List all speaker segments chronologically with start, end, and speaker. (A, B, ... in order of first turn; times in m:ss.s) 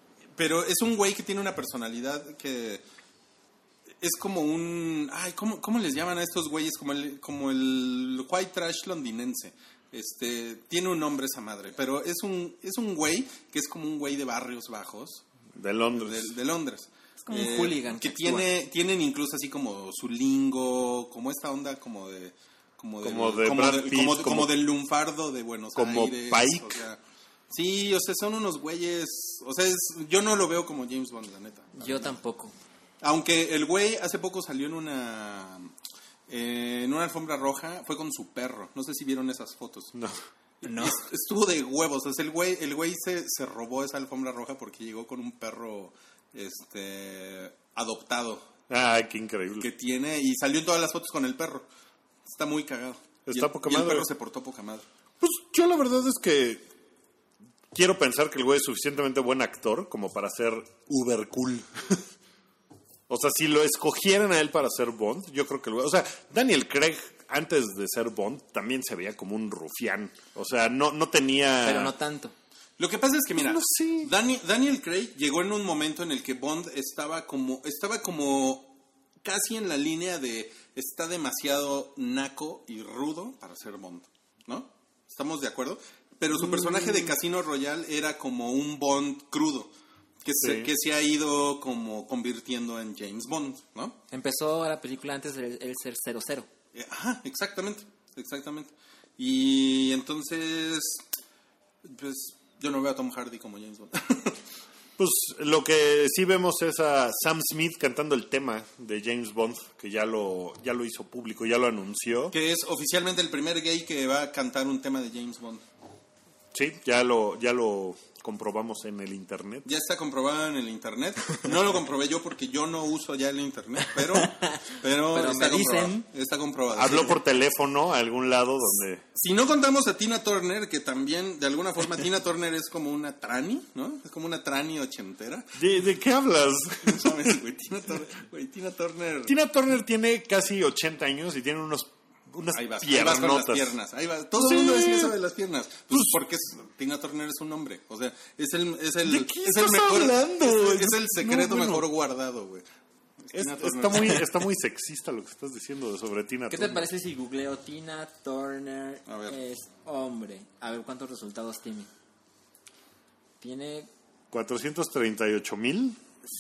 0:00.4-0:02.8 A
0:04.0-0:15.2 A
0:15.6-0:16.3 B
0:15.9-0:27.0 A
0:17.2-0:18.5 C
0:23.0-0:24.5 B
0:25.8-0:26.8 B
0:27.5-0:32.2 A
0:31.8-0:32.5 C
0:33.0-0:35.7 A
0:36.3-0:39.9 A
0:39.9-0:40.2 B
0:40.6-0:48.5 A
0:40.6-0:41.0 C
0:48.7-0:49.7 B
0:49.6-0:51.7 A
0:52.2-0:54.8 A
0:53.3-0:54.1 B
0:55.2-0:56.6 B
0:57.7-1:02.0 B
1:03.1-1:11.9 B
1:11.6-1:12.3 C
1:12.8-1:18.7 A
1:13.4-1:14.1 B
1:19.2-1:29.7 A
1:26.4-1:27.1 B
1:30.2-1:34.0 A
1:30.4-1:30.7 B
1:34.1-1:36.5 C
1:36.7-1:41.0 A
1:41.8-1:44.4 A
1:45.0-1:52.3 B
1:52.3-1:55.6 A
1:56.5-1:59.7 B
1:59.6-2:07.2 A
2:04.0-2:06.0 C
2:06.7-2:09.0 B
2:09.1-2:15.5 A
2:15.6-2:17.4 B
2:16.8-2:19.3 A
2:19.2-2:23.7 B
2:22.5-2:32.6 A
2:24.4-2:25.1 B
2:25.9-2:26.2 B
2:29.0-2:31.8 B
2:33.2-2:34.2 A
2:33.3-2:36.8 B
2:36.5-2:41.9 C
2:39.1-2:39.4 A
2:43.4-2:43.9 C
2:44.3-2:46.0 B